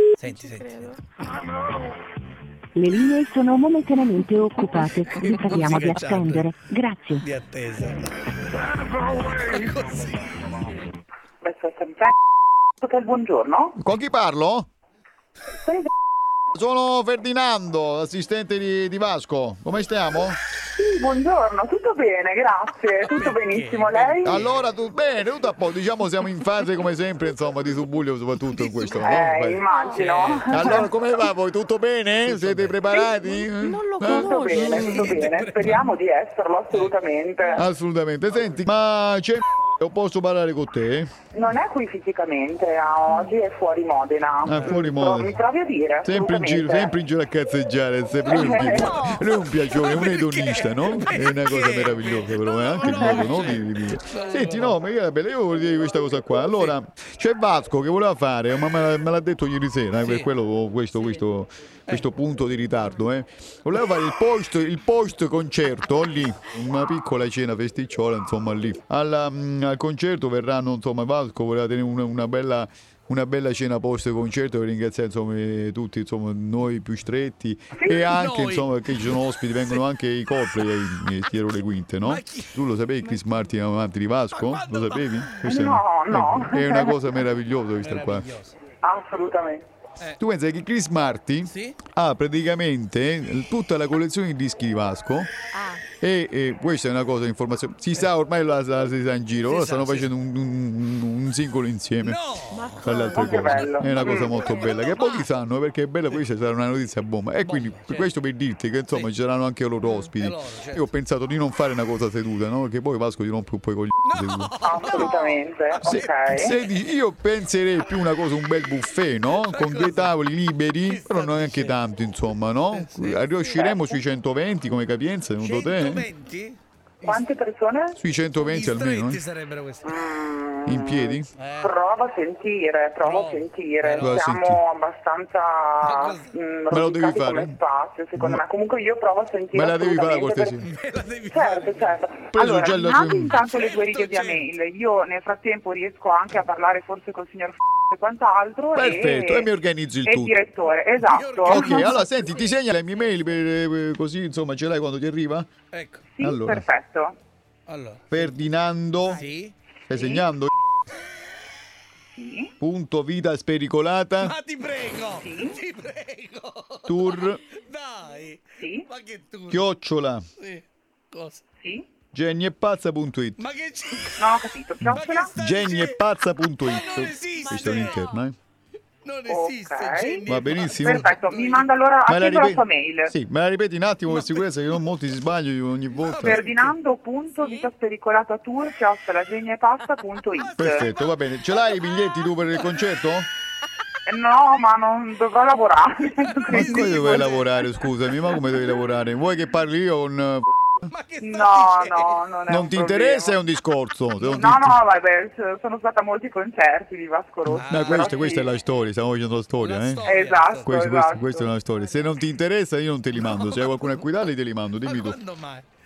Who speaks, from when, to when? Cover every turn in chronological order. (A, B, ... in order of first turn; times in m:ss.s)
0:00.2-0:01.0 A
0:00.3-0:01.0 B
0:02.7-0:07.2 C
0:04.9-0:06.5 A
0:07.2-0:10.5 A
0:11.4-0:12.1 D
0:12.8-0:13.8 D
0:13.8-0:14.7 E
0:15.6-0:15.9 D
0:16.5-0:20.4 E
0:20.7-0:24.4 D
0:23.0-0:24.6 A
0:24.2-0:29.6 E
0:28.5-0:29.3 A
0:29.0-0:30.9 D
0:29.7-0:30.0 B
0:29.9-0:30.6 A
0:30.5-0:35.1 E
0:32.2-0:32.9 A
0:33.2-0:34.7 B
0:34.0-0:37.7 D
0:34.6-0:35.9 A
0:37.6-0:41.1 E
0:41.3-0:46.9 D
0:44.4-0:45.3 E
0:46.0-1:28.3 E
0:48.2-0:49.0 D
0:48.3-0:49.3 B
0:49.7-0:54.8 A
1:00.0-1:00.3 A
1:17.8-1:18.1 D
1:18.0-1:18.7 A
1:19.6-1:19.9 A
1:22.0-1:22.6 A
1:24.3-1:25.5 A
1:25.4-1:27.2 D
1:27.8-1:28.6 A
1:28.8-1:29.6 D
1:30.2-1:35.3 E
1:31.5-1:31.8 A
1:35.5-1:35.8 B
1:36.0-1:42.2 E
1:39.4-1:40.1 A
1:42.0-1:42.9 A
1:42.5-1:44.7 B
1:42.8-1:55.0 E
1:43.1-1:44.2 D
1:43.9-1:45.3 A
1:47.4-1:48.1 A
1:50.2-1:50.9 A
1:54.0-1:56.7 A
1:54.6-1:56.6 D
1:55.8-2:06.1 E
1:59.3-2:00.1 A
2:00.8-2:01.8 A
2:02.7-2:03.3 A
2:03.4-2:04.0 D
2:05.4-2:07.2 A
2:07.0-2:08.0 D
2:08.0-2:09.2 E
2:08.4-2:10.0 A
2:09.8-2:20.6 D
2:10.6-2:11.3 E
2:11.4-2:11.7 A
2:13.0-2:14.2 A
2:14.0-2:14.6 E
2:15.8-2:16.3 A
2:16.7-2:17.6 E
2:18.2-2:18.4 E
2:19.5-2:20.7 E
2:20.6-2:22.0 A
2:21.3-2:29.5 D
2:22.3-2:23.4 E
2:23.3-2:24.5 A
2:28.7-2:30.3 E
2:30.0-2:32.1 D
2:31.0-2:32.4 A
2:31.5-2:35.5 E
2:35.7-2:36.0 A
2:36.2-2:37.2 D
2:36.2-2:36.6 E
2:37.7-2:38.3 A
2:38.1-2:39.2 E
2:39.1-2:39.5 A
2:39.9-2:40.5 E
2:39.9-2:40.3 D
2:42.2-2:42.5 D
2:42.6-2:44.3 E
2:44.2-2:49.6 A
2:45.2-2:45.6 D
2:46.8-2:47.4 E
2:48.6-2:48.8 D
2:49.5-2:50.2 E
2:50.4-2:51.4 A
2:52.1-2:53.4 E
2:53.4-2:56.0 A
2:54.2-2:55.3 D
2:54.8-2:58.3 E
2:56.5-2:58.0 A
2:57.4-2:58.2 B
2:59.0-3:01.7 A
2:59.2-3:03.1 D
3:00.2-3:01.1 E
3:02.1-3:06.5 E
3:04.0-3:04.8 A
3:05.9-3:06.7 A
3:06.2-3:10.9 D
3:07.4-3:07.6 B
3:10.3-3:11.1 A
3:10.6-3:13.3 E
3:14.0-3:17.6 D
3:16.1-3:17.5 A
3:16.5-3:20.9 E
3:20.9-3:22.2 A
3:21.2-3:23.4 D
3:22.5-3:24.8 E
3:24.2-3:28.5 D
3:27.5-3:28.2 A
3:27.6-3:30.0 E
3:29.6-3:30.8 A
3:30.0-3:31.5 D
3:30.6-3:35.2 E
3:33.1-3:34.1 A
3:34.8-3:35.6 A